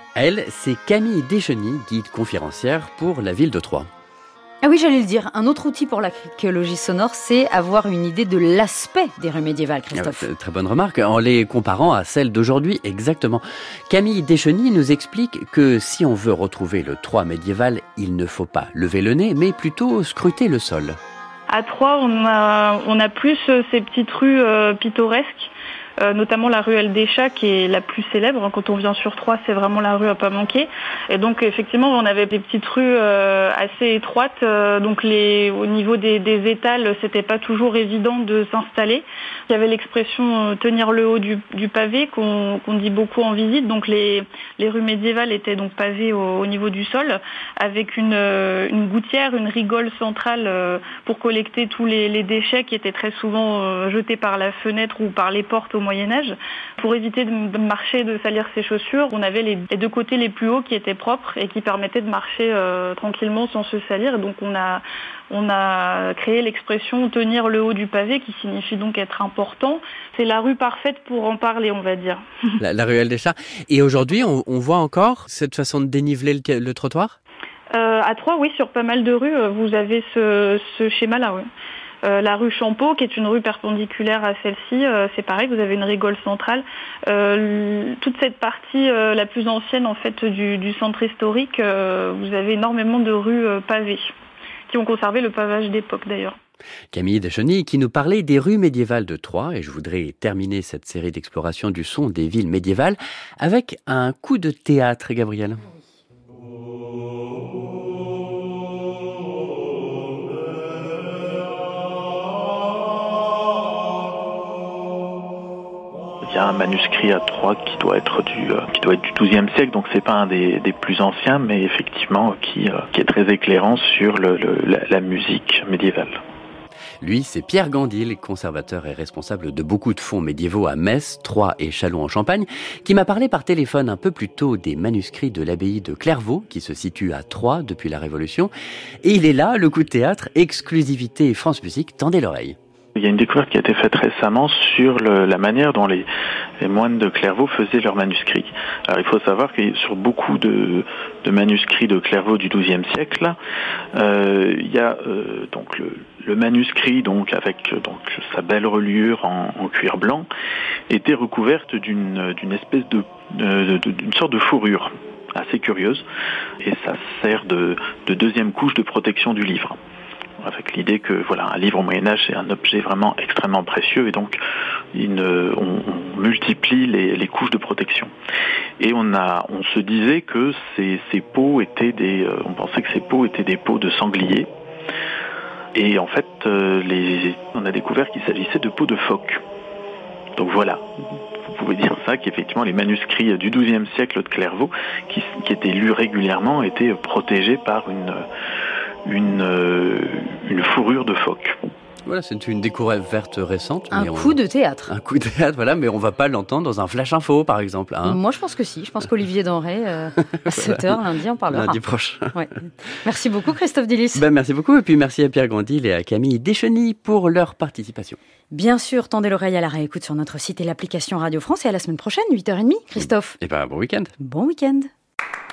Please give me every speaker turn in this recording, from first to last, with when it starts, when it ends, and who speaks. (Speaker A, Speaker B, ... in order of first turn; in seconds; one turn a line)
Speaker A: 0.1-3.9
Speaker B: 4.6-10.3
Speaker A: 9.9-21.0
Speaker C: 21.5-72.2
Speaker A: 72.6-77.2
Speaker C: 77.7-81.5
Speaker C: 82.0-94.1
Speaker C: 94.7-96.3
Speaker A: 96.9-105.6
Speaker D: 116.2-126.2
Speaker A: 127.0-138.5
Speaker A: 139.0-142.6
Speaker D: 142.9-146.1
Speaker D: 146.6-153.3
Speaker D: 153.9-160.3
Speaker D: 160.9-166.0
Speaker D: 166.6-169.8
Speaker D: 170.4-174.4
Speaker D: 174.9-178.1
Speaker D: 178.8-184.5
Speaker D: 185.7-189.4
Speaker D: 190.4-190.8
Speaker D: 191.5-198.2
Speaker D: 199.1-201.6
Speaker A: 202.1-208.2
Speaker B: 203.9-204.9
Speaker B: 208.0-211.8
Speaker A: 210.2-210.8
Speaker A: 211.5-212.4
Speaker B: 213.0-214.2
Speaker A: 214.1-218.2
Speaker B: 218.5-223.4
Speaker A: 222.9-224.1
Speaker B: 224.2-224.9